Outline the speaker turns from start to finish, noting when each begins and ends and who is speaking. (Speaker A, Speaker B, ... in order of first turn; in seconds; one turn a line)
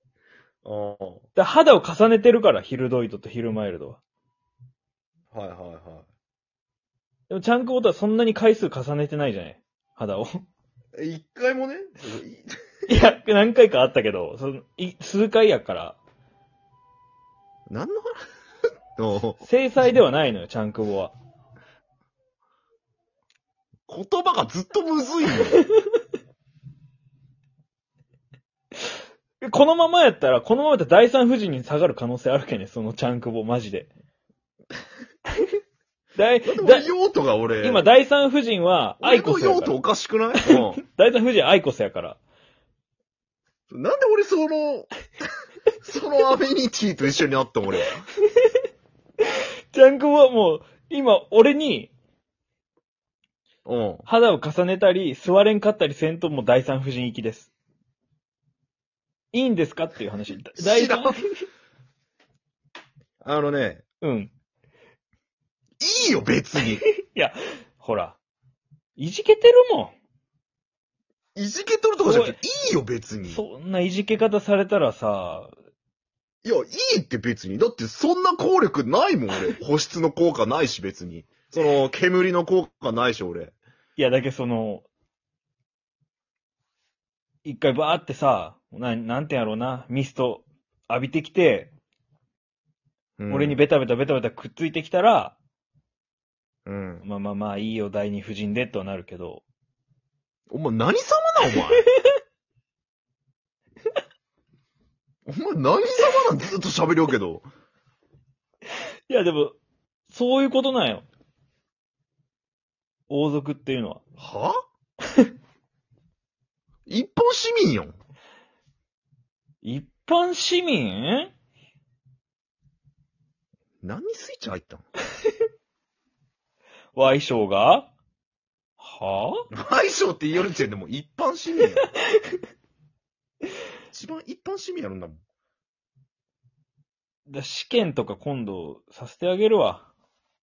Speaker A: 0.6-1.2
Speaker B: 1.4-4.0
Speaker A: 5.3-6.1
Speaker B: 7.3-10.4
Speaker A: 10.9-12.5
Speaker B: 12.9-16.0
Speaker A: 17.7-18.1
Speaker A: 19.0-19.4
Speaker B: 19.4-21.1
Speaker A: 23.9-25.6
Speaker B: 29.4-33.9
Speaker B: 36.1-36.9
Speaker A: 36.4-37.8
Speaker B: 37.6-39.7
Speaker A: 39.0-40.8
Speaker B: 40.5-42.2
Speaker A: 43.7-44.9
Speaker A: 45.8-48.0
Speaker B: 49.7-51.9
Speaker A: 53.6-54.1
Speaker B: 54.1-57.5
Speaker B: 59.3-61.4
Speaker A: 60.6-61.1
Speaker A: 63.2-63.8
Speaker B: 64.0-64.3
Speaker A: 65.8-66.8
Speaker B: 67.0-68.2
Speaker B: 69.0-70.0
Speaker A: 71.3-73.4
Speaker B: 72.0-72.3
Speaker B: 73.3-75.5
Speaker A: 76.4-83.5
Speaker B: 84.0-84.8
Speaker B: 87.4-91.7
Speaker A: 93.2-93.6
Speaker B: 93.3-95.4
Speaker A: 96.7-97.0
Speaker B: 97.0-99.4
Speaker A: 100.5-101.8
Speaker A: 105.2-107.5
Speaker B: 109.1-109.6
Speaker B: 110.1-111.0
Speaker B: 113.1-114.0
Speaker A: 114.2-114.5
Speaker A: 116.9-117.9
Speaker B: 119.6-121.3
Speaker A: 123.8-124.8
Speaker B: 126.9-127.9
Speaker B: 128.8-129.4
Speaker A: 129.5-131.8
Speaker A: 133.9-135.2
Speaker B: 137.3-139.9